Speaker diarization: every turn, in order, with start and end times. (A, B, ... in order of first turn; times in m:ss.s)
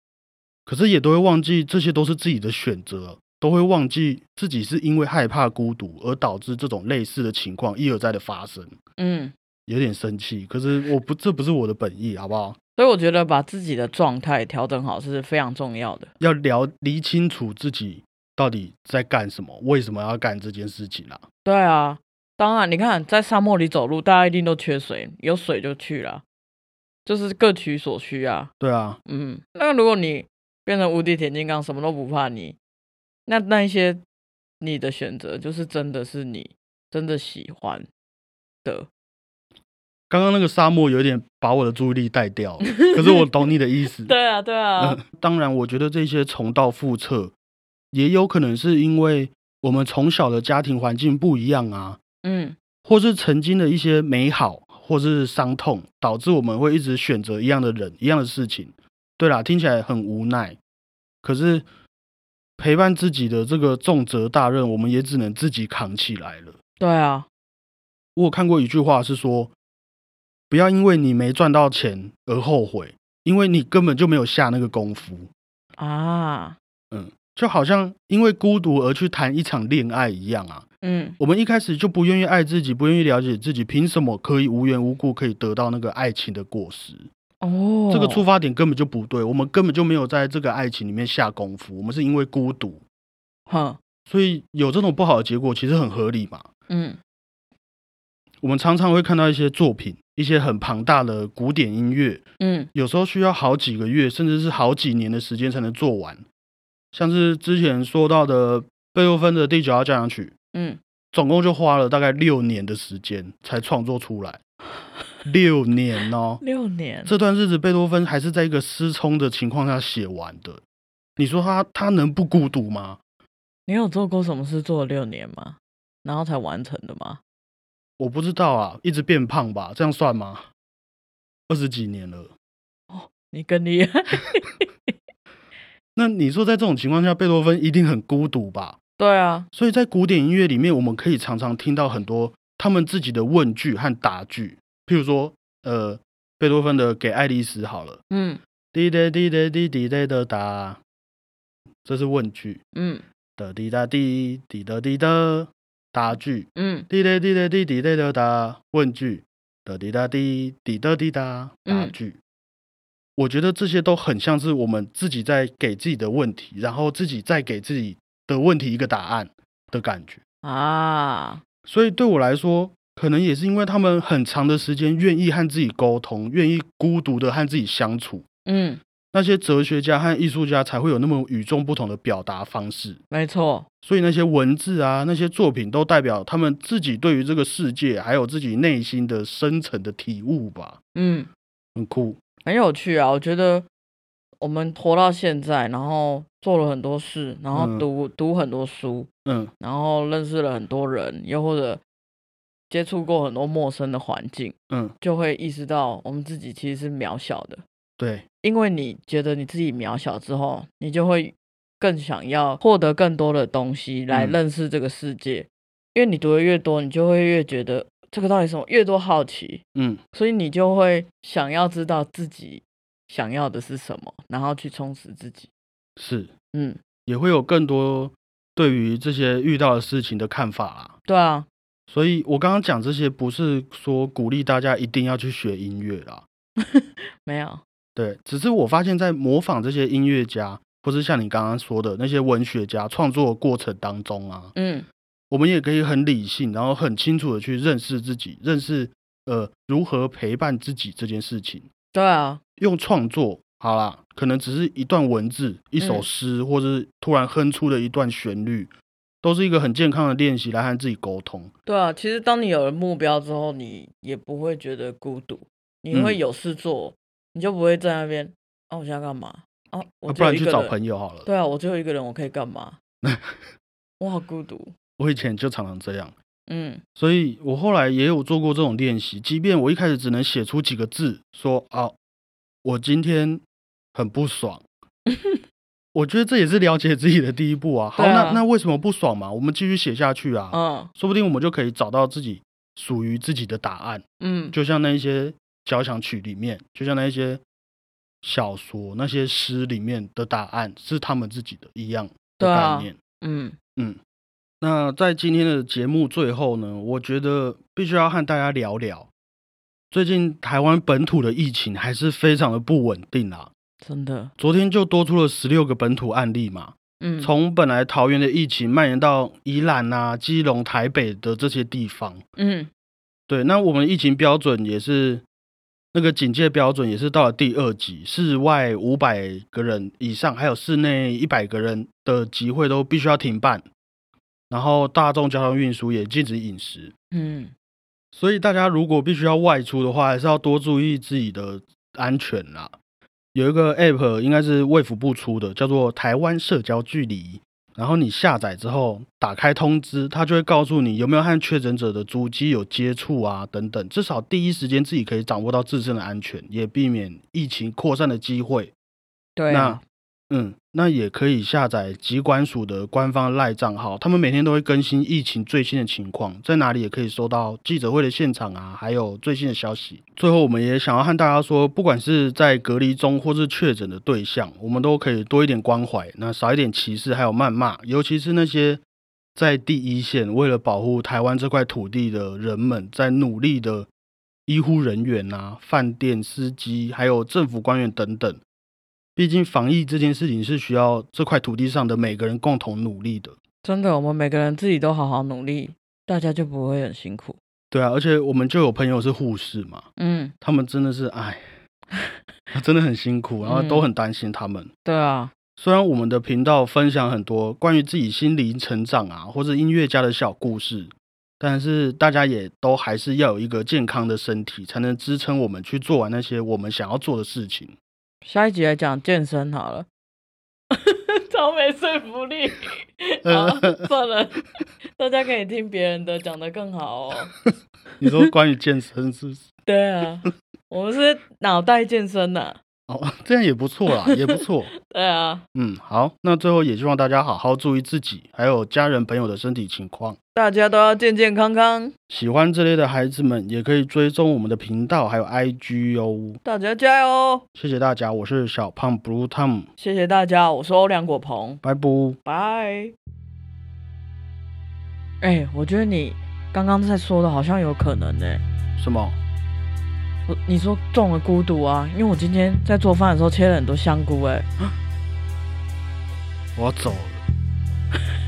0:00.6-0:08.7 A
0:09.0-0:09.3 B
0:09.7-0:12.6 A
0:12.8-0:16.1 B
0:16.2-0:21.2 A
0:21.4-0:26.2 B
0:27.0-0:28.5 B
0:28.6-0:29.0 A
0:29.0-0:32.6 B
0:33.2-0:34.0 B
0:34.6-0:37.9 B
0:40.1-0:44.1 A
0:42.6-0:43.2 B
0:44.0-0:45.0 B
0:44.8-0:47.3 A
0:47.9-0:52.0 A
0:52.2-0:52.6 B
0:52.8-1:00.6 A
1:01.2-1:01.6 A
1:02.6-1:06.6 A
1:06.8-1:07.3 B
1:08.2-1:09.5 A
1:10.5-1:15.3 A
1:15.8-1:16.6 B
1:16.9-1:20.6 A
1:20.8-1:21.2 B
1:21.2-1:27.1 A
1:27.4-1:28.2 B
1:27.9-1:32.8 A
1:33.5-1:33.8 B
1:34.1-1:36.5 A
1:36.7-1:37.0 B
1:38.4-1:46.2 A
1:42.4-1:42.7 B
1:46.9-1:50.3 A
1:50.5-1:50.8 B
1:51.1-1:54.4 A
1:55.2-1:56.4 A
1:56.4-1:57.1 B
1:57.0-2:00.6 A
2:01.2-2:03.0 A
2:03.7-2:07.2 B
2:08.0-2:10.5 A
2:11.5-2:12.3 A
2:12.9-2:14.6 B
2:16.0-2:18.8 A
2:19.0-2:19.5 B
2:19.5-2:28.0 A
2:28.1-2:28.4 B
2:28.7-2:30.8 A
2:31.8-2:32.6 A
2:32.7-2:33.0 B
2:33.4-2:42.2 A
2:36.6-2:36.9 B
2:41.6-2:41.9 B
2:43.2-2:50.2 A
2:50.4-2:51.4 B
2:51.6-2:58.2 A
2:58.4-2:58.8 B
2:59.1-3:03.0 A
3:03.1-3:03.6 B
3:03.8-3:10.8 A
3:10.9-3:11.3 B
3:11.8-3:12.2 A
3:12.4-3:13.6 B
3:14.4-3:19.1 B
3:17.5-3:17.8 A
3:19.2-3:19.5 A
3:19.6-3:21.8 B
3:22.7-3:27.6 B
3:24.7-3:24.9 A
3:28.0-3:28.2 A
3:28.4-3:45.5 B
3:34.1-3:34.4 A
3:39.7-3:40.0 A
3:46.0-3:46.3 A
3:46.5-3:46.8 B
3:47.0-3:50.9 A
3:51.1-3:51.5 B
3:51.9-3:56.2 A
3:56.6-3:57.6 B
3:58.0-4:04.5 A
4:04.5-4:04.8 B
4:05.3-4:11.7 A
4:11.9-4:12.4 B
4:12.6-4:18.7 A
4:15.8-4:16.0 B
4:19.2-4:21.5 A
4:21.6-4:30.7 B
4:25.9-4:26.2 A
4:30.1-4:31.3 A
4:31.2-4:32.8 B
4:33.0-4:33.3 A
4:34.0-4:34.7 B
4:35.0-4:36.1 A
4:36.5-4:36.8 B
4:37.0-4:41.9 A
4:42.6-4:43.4 A
4:43.9-4:44.6 A
4:45.1-4:45.4 B
4:45.9-4:57.4 A
4:48.0-4:48.4 B
4:50.5-4:50.9 B
4:54.2-4:54.5 B
4:58.2-5:03.0 A
5:02.4-5:03.6 B
5:04.6-5:09.1 A
5:09.9-5:13.5 A
5:13.8-5:14.3 B
5:14.4-5:22.2 A
5:17.0-5:17.3 B
5:22.4-5:22.7 B
5:23.3-5:25.2 A
5:25.9-5:33.6 A
5:34.5-5:36.9 A
5:37.1-5:37.5 B
5:38.1-5:42.7 A
5:43.3-5:58.7 A
5:59.4-5:59.8 B
5:59.5-6:18.8 A
6:19.4-6:23.9 A
6:24.5-6:28.4 A
6:29.2-6:33.4 A
6:33.6-6:37.4 B
6:37.7-6:39.9 A
6:40.0-6:40.3 B
6:40.4-6:41.4 A
6:42.5-6:44.7 A
6:43.4-6:43.9 B
6:44.8-6:45.3 B
6:45.6-6:57.7 A
6:58.2-6:59.9 B
7:00.7-7:07.4 B
7:03.2-7:03.9 A
7:08.0-7:09.5 A
7:09.6-7:12.6 B
7:12.9-7:14.7 A
7:13.9-7:15.4 B
7:15.5-7:20.2 A
7:20.3-7:21.9 B
7:22.1-7:26.4 A
7:26.4-7:27.4 B
7:27.5-7:29.7 A
7:29.8-7:31.6 B
7:31.6-7:32.2 A
7:32.2-7:32.9 B
7:35.2-7:38.4 B
7:38.8-7:39.2 A
7:40.3-7:44.4 B
7:46.6-7:47.2 A